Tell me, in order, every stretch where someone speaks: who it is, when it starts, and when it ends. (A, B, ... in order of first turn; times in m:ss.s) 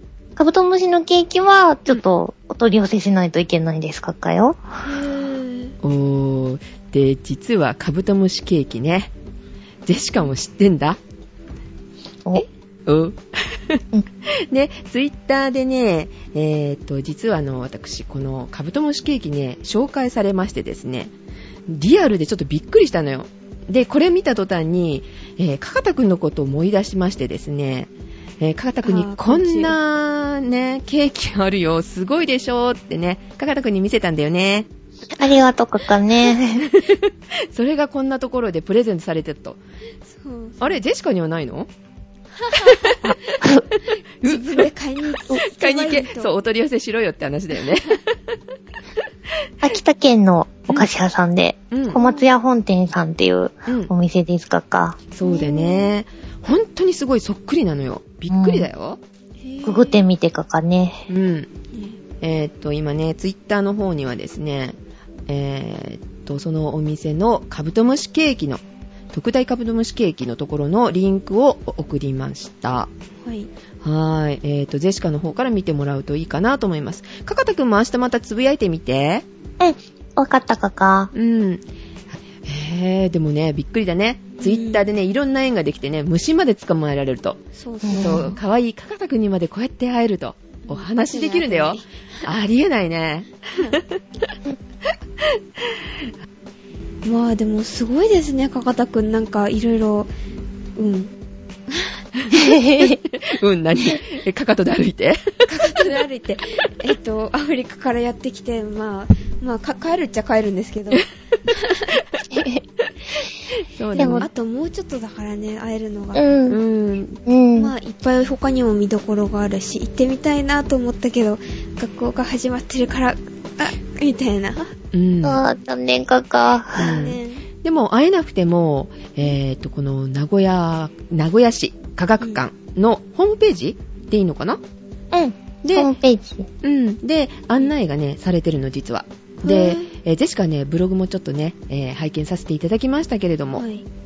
0:00.4-0:04.6 A
0:04.8-0:05.8 B
0:05.8-0:09.1 C
0:09.9-0:11.0 C
0:12.9-0:13.8 C
0:14.5-0:21.1 C
0:21.7-0:27.9 C
0:28.4-0:34.7 C
0:28.8-0:29.7 B
0:35.2-0:36.7 A
0:36.6-0:39.6 C
0:40.0-0:40.8 B
0:40.6-0:41.7 C
0:42.4-0:43.0 B
0:42.6-0:43.1 C
0:43.0-0:43.6 A
0:43.8-0:44.7 C
0:44.2-0:46.3 B
0:45.4-0:48.1 C
0:49.6-0:55.0 A
0:51.7-0:52.0 C
0:51.9-0:52.3 B
0:55.1-0:59.0 C
0:55.2-0:55.9 B
0:58.3-0:58.7 A
0:59.4-1:00.1 B
0:59.6-1:01.1 A
1:01.1-1:01.5 C
1:01.7-1:02.0 B
1:02.2-1:08.6 C
1:09.1-1:12.9 C
1:13.2-1:13.5 B
1:13.8-1:19.2 C
1:19.6-1:21.1 A
1:21.1-1:21.6 C
1:22.4-1:27.4 C
1:24.4-1:24.8 B
1:27.6-1:28.4 B
1:27.8-1:28.4 A
1:28.0-1:34.0 C
1:30.6-1:32.3 B
1:33.6-1:33.8 B
1:35.2-1:35.8 C
1:37.0-1:40.1 B
1:40.8-1:41.1 B
1:42.3-1:43.0 A
1:42.3-1:45.9 C
1:45.4-1:51.9 B
1:51.9-1:52.3 C
1:52.3-1:52.6 A
1:53.1-1:54.3 C
1:54.0-1:54.3 A
1:54.2-1:56.3 B
1:56.2-1:56.6 A
1:56.5-1:57.2 C
1:57.3-1:57.7 A
1:57.6-2:04.7 B
2:04.9-2:05.4 C
2:05.2-2:07.0 A
2:06.8-2:07.5 B
2:06.8-2:14.6 C
2:15.1-2:16.5 A
2:15.6-2:15.9 C
2:16.6-2:23.6 C
2:19.4-2:19.9 B
2:23.6-2:23.8 B